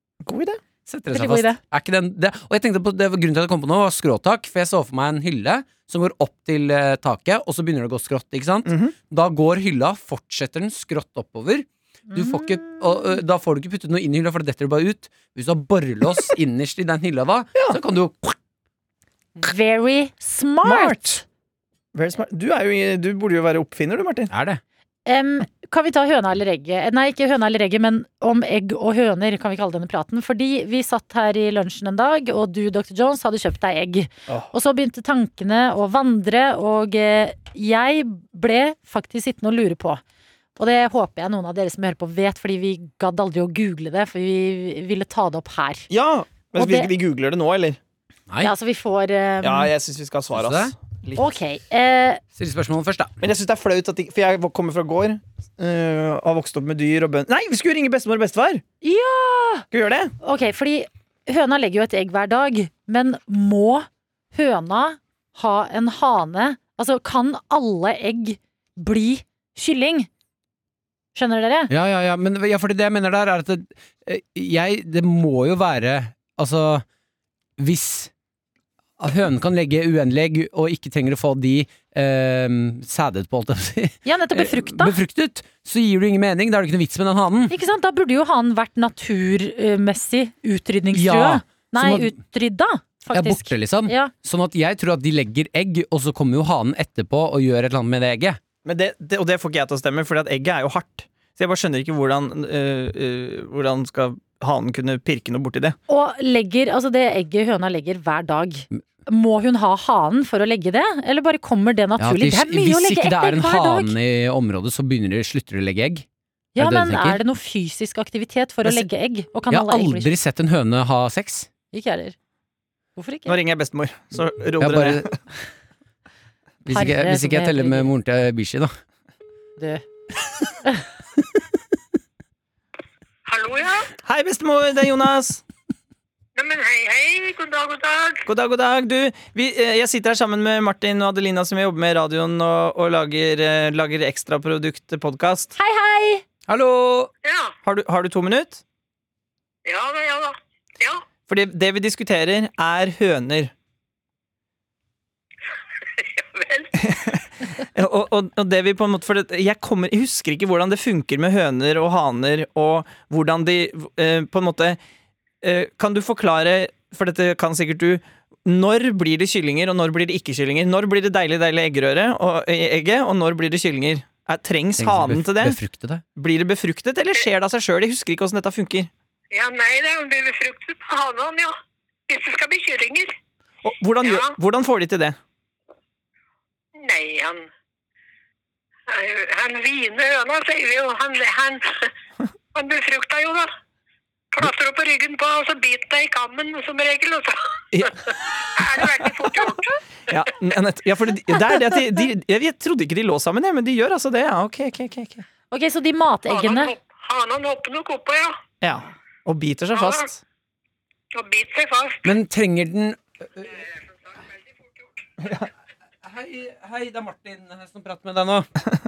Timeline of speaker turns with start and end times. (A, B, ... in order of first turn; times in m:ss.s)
0:00.2-0:00.6 A
0:00.8-0:18.4 B
0:01.1-0:01.6 C
0:08.7-0:08.9 A
0:12.1-0:12.8 C
0:19.4-0:21.2 C
0:20.6-0:21.2 A
0:21.9-0:24.3 A
0:24.3-0:24.6 B
0:25.0-0:40.0 C
0:40.6-0:45.9 C
0:45.9-0:47.8 A
0:46.6-0:46.9 C
0:48.4-0:49.7 C
0:49.4-0:51.2 A
0:50.3-0:50.7 B
0:51.2-0:52.2 C
0:52.3-0:53.1 B
0:53.2-0:58.6 A
0:58.8-0:59.7 C
0:59.7-1:00.1 A
1:00.2-1:10.1 C
1:11.1-1:11.7 C
1:11.7-1:16.8 B
1:17.6-1:18.1 B
1:19.0-1:27.5 B
1:24.0-1:25.0 C
1:27.5-1:34.1 C
1:30.9-1:32.2 B
1:33.1-1:38.4 B
1:38.6-1:45.8 A
1:45.9-1:53.9 C
1:52.0-1:56.0 B
1:56.5-2:00.1 C
1:56.6-1:57.2 B
1:59.5-2:01.5 B
2:01.7-2:02.1 C
2:03.0-2:03.4 C
2:03.2-2:05.1 A
2:04.6-2:05.2 B
2:06.6-2:08.7 B
2:06.7-2:07.9 C
2:09.6-2:09.8 C
2:13.2-2:13.9 D
2:14.0-2:15.4 A
2:16.4-2:18.2 D
2:18.3-2:25.5 A
2:25.6-2:26.2 C
2:26.5-2:27.1 B
2:27.2-2:27.5 D
2:27.6-2:28.6 A
2:29.6-2:31.0 D
2:31.3-2:33.5 A
2:35.9-2:37.0 D
2:36.8-2:44.8 A
2:45.4-2:55.6 A
2:54.8-2:56.0 B
2:56.1-2:58.9 A
2:59.3-3:01.6 D
3:02.1-3:03.1 D
3:03.6-3:05.2 A
3:04.0-3:04.3 D
3:06.7-3:07.5 D
3:08.9-3:11.9 D
3:12.5-3:13.5 D
3:14.3-3:19.8 D
3:17.7-3:19.5 A
3:20.1-3:25.2 A
3:25.5-3:26.7 C
3:26.3-3:28.4 D
3:28.6-3:30.2 A
3:29.7-3:30.0 D
3:31.1-3:32.2 D
3:32.0-3:33.6 B
3:33.6-3:34.4 D
3:35.2-3:35.5 A
3:36.0-3:38.5 B